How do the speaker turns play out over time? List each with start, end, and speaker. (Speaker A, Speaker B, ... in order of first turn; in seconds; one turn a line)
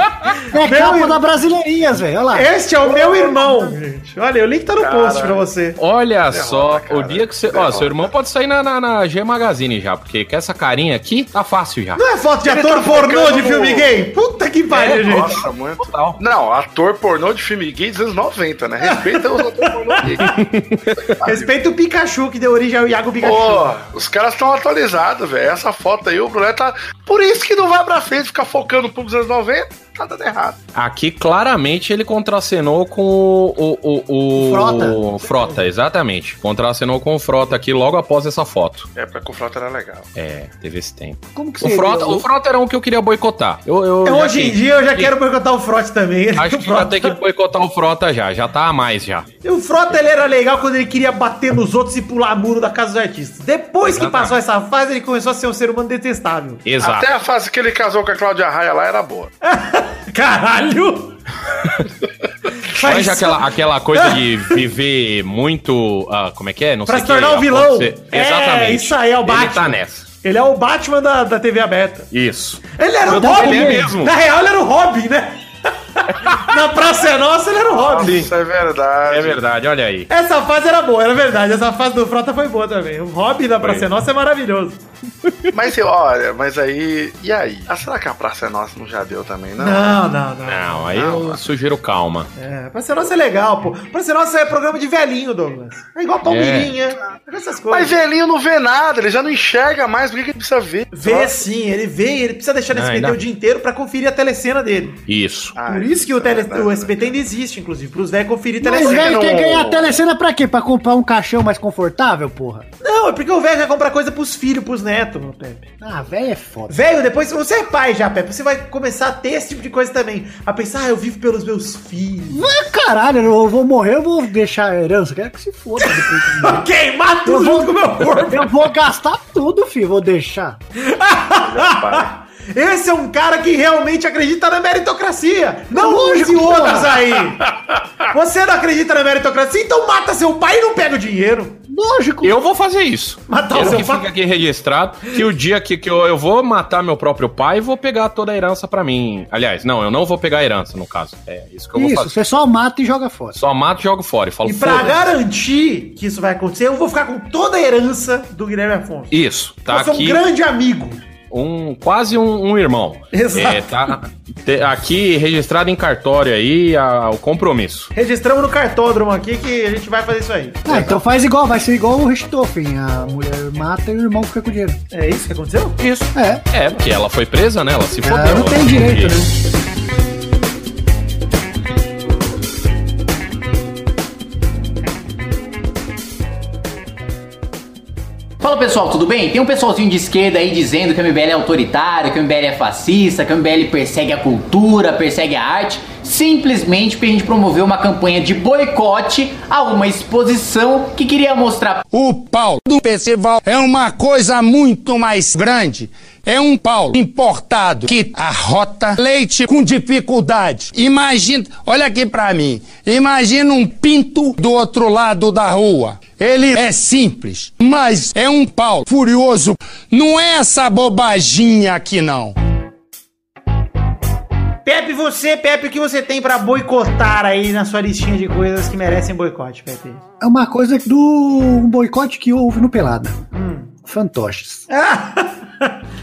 Speaker A: 0.5-2.5
Speaker B: 0.6-1.2
Speaker B: 2.3-5.8
Speaker C: 4.8-5.5
Speaker D: 5.8-12.0
Speaker C: 6.3-8.1
Speaker B: 11.9-15.4
Speaker C: 12.4-13.9
Speaker D: 14.7-16.2
Speaker C: 14.8-20.4
Speaker B: 18.8-20.4
Speaker D: 20.3-21.1
Speaker C: 21.2-21.5
Speaker B: 21.2-23.7
Speaker C: 23.2-30.6
Speaker D: 30.7-38.9
Speaker A: 34.3-35.7
Speaker C: 39.0-40.1
Speaker D: 40.1-45.1
Speaker A: 41.3-42.3
Speaker B: 44.0-47.1
Speaker D: 46.4-49.3
Speaker B: 49.4-56.6
Speaker D: 53.8-54.4
Speaker D: 56.6-57.1
Speaker C: 56.8-59.3
Speaker B: 59.4-61.2
Speaker B: 62.7-63.4
Speaker D: 62.8-70.0
Speaker B: 63.9-64.5
Speaker B: 66.9-72.1
Speaker D: 72.1-74.1
Speaker B: 72.8-75.4
Speaker A: 73.1-73.9
Speaker B: 76.0-78.2
Speaker C: 77.7-79.4
Speaker D: 78.0-78.3
Speaker D: 79.1-80.1
Speaker B: 80.1-84.8
Speaker D: 83.6-83.9
Speaker C: 85.5-90.0
Speaker B: 89.6-90.9
Speaker D: 90.5-92.3
Speaker C: 90.9-91.4
Speaker B: 92.3-98.0
Speaker D: 96.2-96.7
Speaker C: 97.7-101.4
Speaker B: 100.9-105.0
Speaker D: 102.7-103.2
Speaker D: 105.1-105.5
Speaker C: 105.5-107.2
Speaker B: 105.6-109.3
Speaker A: 108.6-112.7
Speaker C: 108.7-110.0
Speaker B: 112.8-115.7
Speaker A: 115.8-116.8
Speaker B: 116.7-122.5
Speaker A: 122.3-126.7
Speaker B: 125.8-128.5
Speaker A: 127.2-130.6
Speaker B: 130.8-137.4
Speaker C: 131.4-132.1
Speaker A: 135.7-137.0
Speaker B: 138.1-141.6
Speaker A: 141.7-142.3
Speaker D: 142.2-152.1
Speaker B: 143.3-144.1
Speaker A: 151.7-153.4
Speaker D: 153.3-155.1
Speaker B: 154.4-159.1
Speaker D: 159.1-160.2
Speaker B: 159.7-161.0
Speaker D: 161.3-167.9
Speaker B: 163.1-163.8
Speaker B: 167.9-170.9
Speaker A: 170.7-174.8
Speaker B: 174.9-175.8
Speaker D: 175.8-179.2
Speaker A: 176.1-176.4
Speaker A: 178.0-179.3
Speaker E: 188.4-201.8
Speaker F: 201.9-222.3
Speaker B: 224.6-230.0
Speaker A: 230.2-233.2
Speaker B: 233.3-233.7
Speaker A: 233.8-234.7
Speaker B: 234.7-235.7